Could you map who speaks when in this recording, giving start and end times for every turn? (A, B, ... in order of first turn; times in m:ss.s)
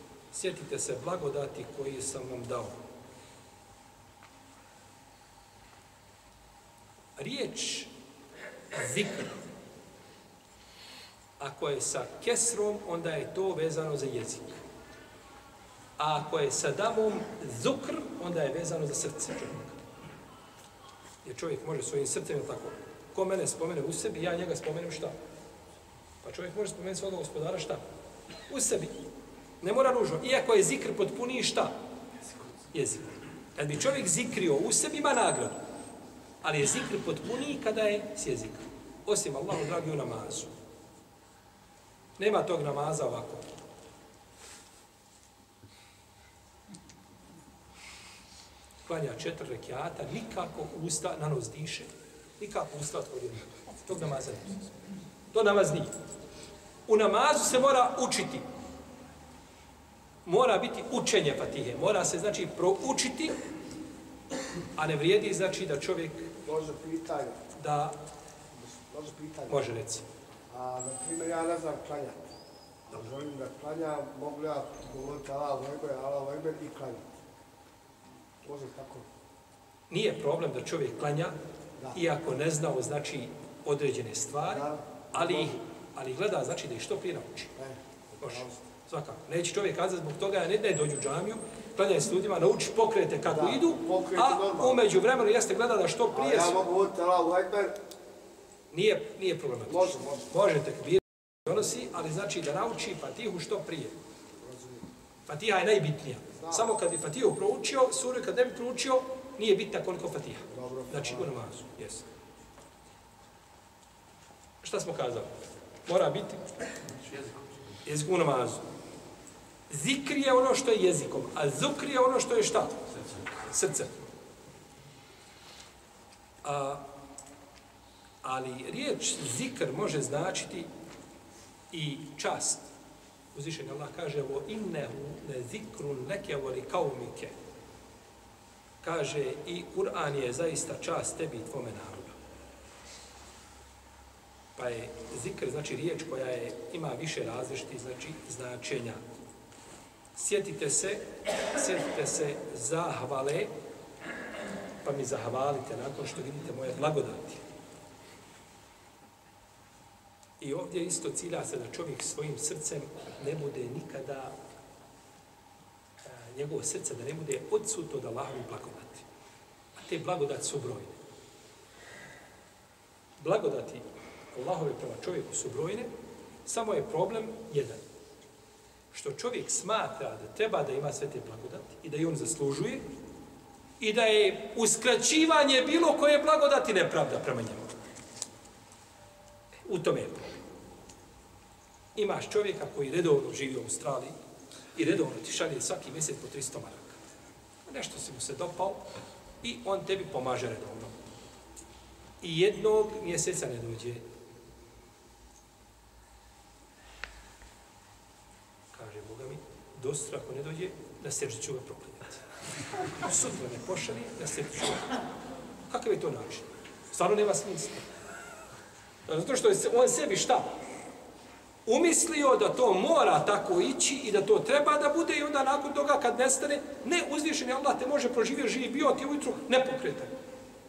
0:00.3-0:02.8 A
0:07.2-0:07.9 A
0:08.7-0:09.4 A
0:11.4-0:14.6 A
0:16.0-0:19.8 A
0:21.2-0:25.2 A
0:26.2-0:27.8 A
0:28.5-0:29.0 A
0:29.6-0:31.8 A
0:32.7-0:35.6 A
0:36.4-0:40.5 A
0:42.2-0:43.5 A
0:48.9-0:54.6 A
0:55.3-0:55.9 A
0:56.9-0:58.4 A
1:00.3-1:03.4 A
1:04.8-1:06.3 A
1:06.4-1:07.4 B
1:07.5-1:08.0 A
1:08.5-1:09.6 B
1:09.5-1:10.0 A
1:10.5-1:12.3 B
1:12.9-1:17.2 B
1:18.4-1:19.1 B
1:19.9-1:21.4 A
1:21.9-1:27.5 A
1:24.5-1:25.6 B
1:27.6-1:28.6 B
1:28.2-1:36.6 A
1:33.3-1:34.8 B
1:36.1-1:37.8 B
1:38.7-1:44.0 A
1:39.7-1:40.2 B
1:44.4-1:44.9 B
1:45.3-1:52.0 A
1:46.4-1:46.6 B
1:50.5-1:51.3 B
1:54.6-1:55.3 A
1:55.9-1:56.4 A
1:57.8-1:58.6 A
1:59.7-2:04.0 A
2:06.4-2:06.8 A
2:08.2-2:10.7 A
2:11.7-2:12.7 A
2:13.3-2:17.4 A
2:18.8-2:22.2 A
2:24.6-2:29.0 A
2:30.2-2:33.5 A
2:34.8-2:37.4 A
2:40.4-2:44.4 A
2:46.0-2:49.0 A
2:49.8-2:51.0 A
2:53.2-2:55.9 A
2:56.5-2:57.8 A
2:58.9-3:02.9 A
3:03.8-3:07.7 A
3:09.7-3:10.4 A
3:12.0-3:14.1 A
3:14.8-3:17.0 A
3:17.7-3:18.9 A
3:19.4-3:21.0 A
3:22.2-3:24.0 A
3:28.7-3:32.2 A
3:33.0-3:35.0 A
3:35.7-3:37.9 A
3:39.1-3:40.5 A
3:41.7-3:50.1 A